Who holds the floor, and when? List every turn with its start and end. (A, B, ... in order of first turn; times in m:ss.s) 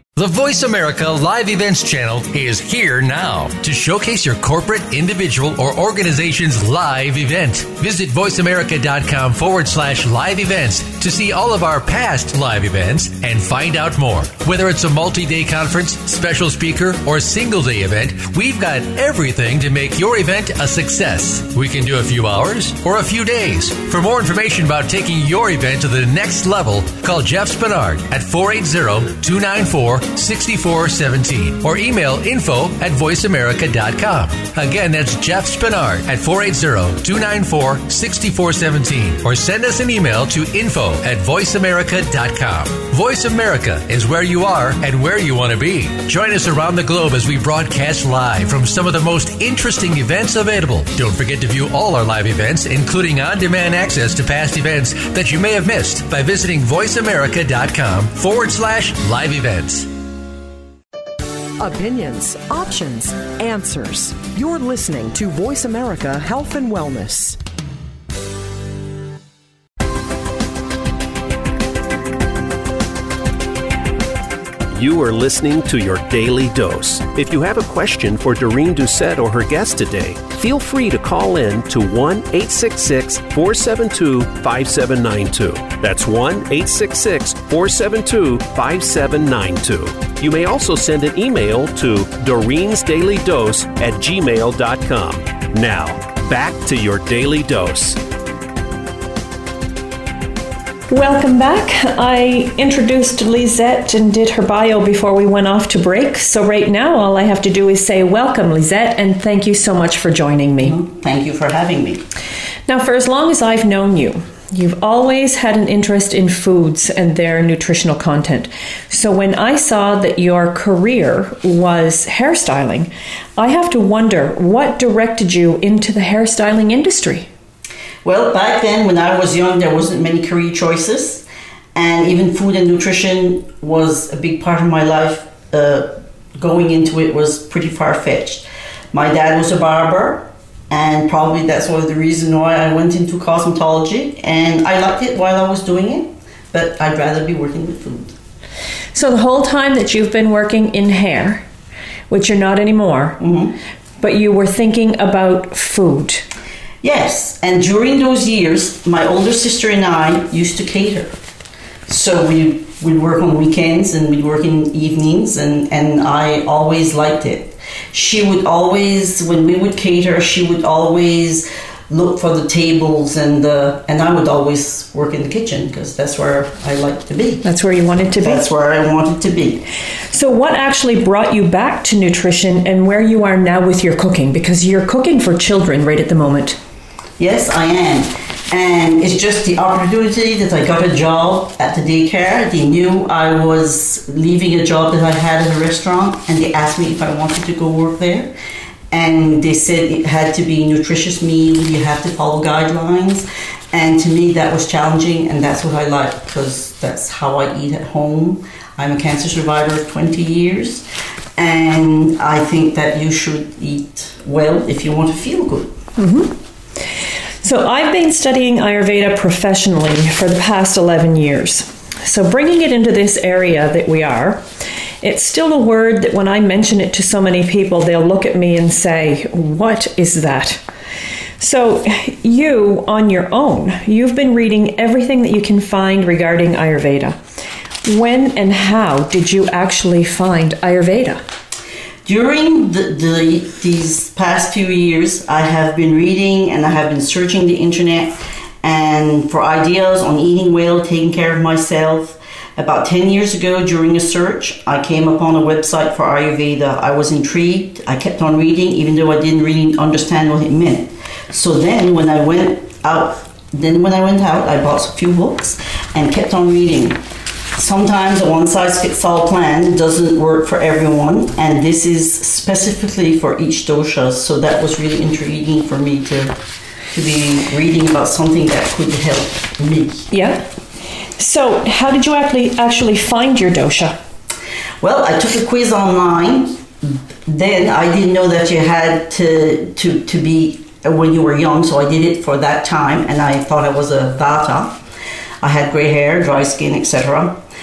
0:00.2-0:59.9 A
1:01.6-1:07.4 B
1:14.7-1:38.0 C
1:40.9-1:50.8 D
1:50.6-1:52.0 E
1:52.7-2:07.3 D
2:08.0-2:28.1 E
2:28.9-2:31.5 D
2:32.1-2:33.2 D
2:33.2-2:33.6 E
2:34.0-2:36.3 D
2:36.8-2:41.2 E
2:41.9-2:57.4 E
2:57.4-2:58.4 D
2:58.2-2:59.6 E
3:00.1-3:06.6 D
3:07.2-3:18.3 E
3:18.9-3:30.8 E
3:31.4-3:35.8 E
3:36.0-3:36.4 D
3:37.4-3:44.4 D
3:45.0-3:50.6 D
3:51.4-3:57.2 D
3:57.9-4:01.2 D
4:02.0-4:27.0 E
4:27.6-4:36.4 E
4:36.9-4:40.1 E
4:40.1-4:40.5 D
4:41.2-4:44.0 D
4:44.8-4:54.8 E
4:55.4-4:57.4 E